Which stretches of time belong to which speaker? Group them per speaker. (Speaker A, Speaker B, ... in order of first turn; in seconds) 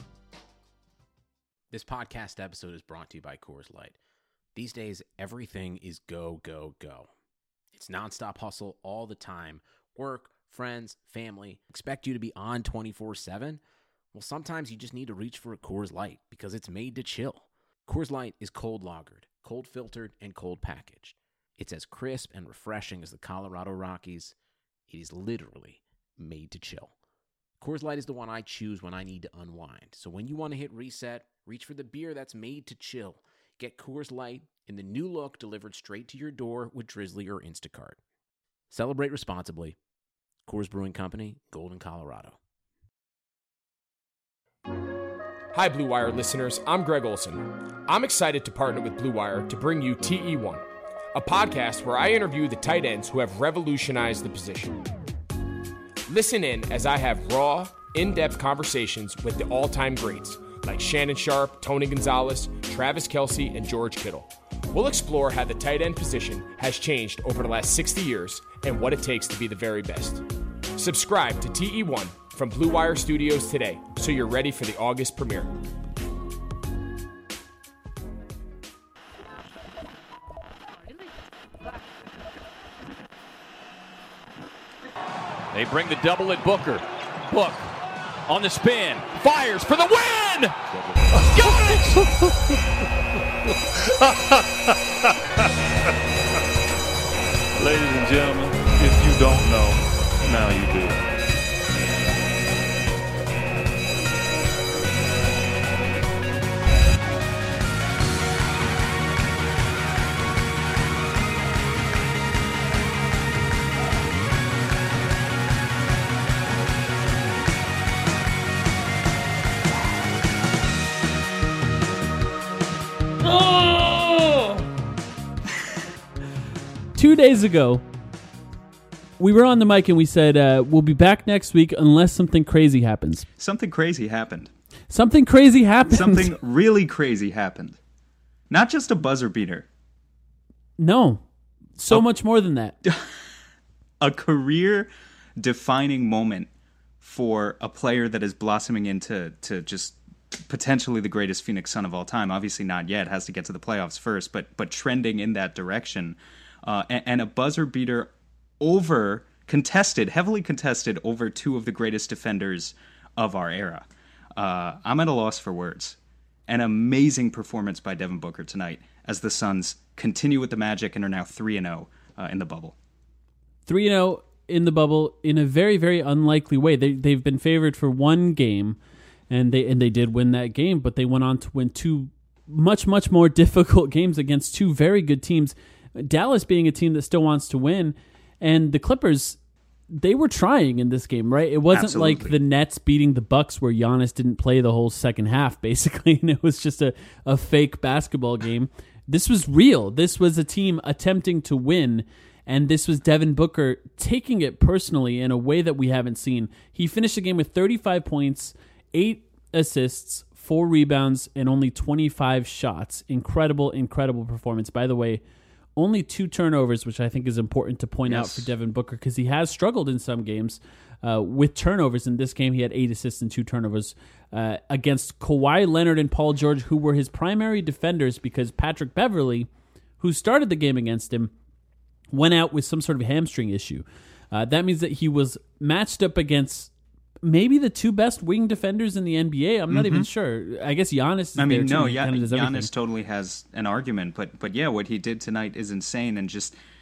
Speaker A: 1.7-4.0, 4.5-7.1, 7.7-13.6, 14.1-24.4, 24.9-26.9, 27.6-38.0, 38.7-39.8, 40.5-42.4
Speaker B: 45.5-50.6, 51.1-54.8, 56.1-70.2, 70.8-75.5
Speaker C: 85.5-87.7, 88.3-92.1
Speaker D: 91.2-92.0, 93.8-95.5, 97.6-101.0
Speaker E: 127.0-127.8, 129.2-133.3, 134.9-136.3, 140.8-141.2, 141.8-142.8, 173.7-178.8, 179.3-189.4, 189.9-215.2, 215.8-229.5, 230.0-231.3, 232.1-236.7, 237.2-242.7
Speaker F: 133.4-134.5, 135.9-137.8, 138.5-139.7, 144.0-146.5, 147.0-150.0, 150.5-166.0, 166.5-172.8, 191.7-192.4, 218.1-218.5, 239.7-240.1, 241.4-246.6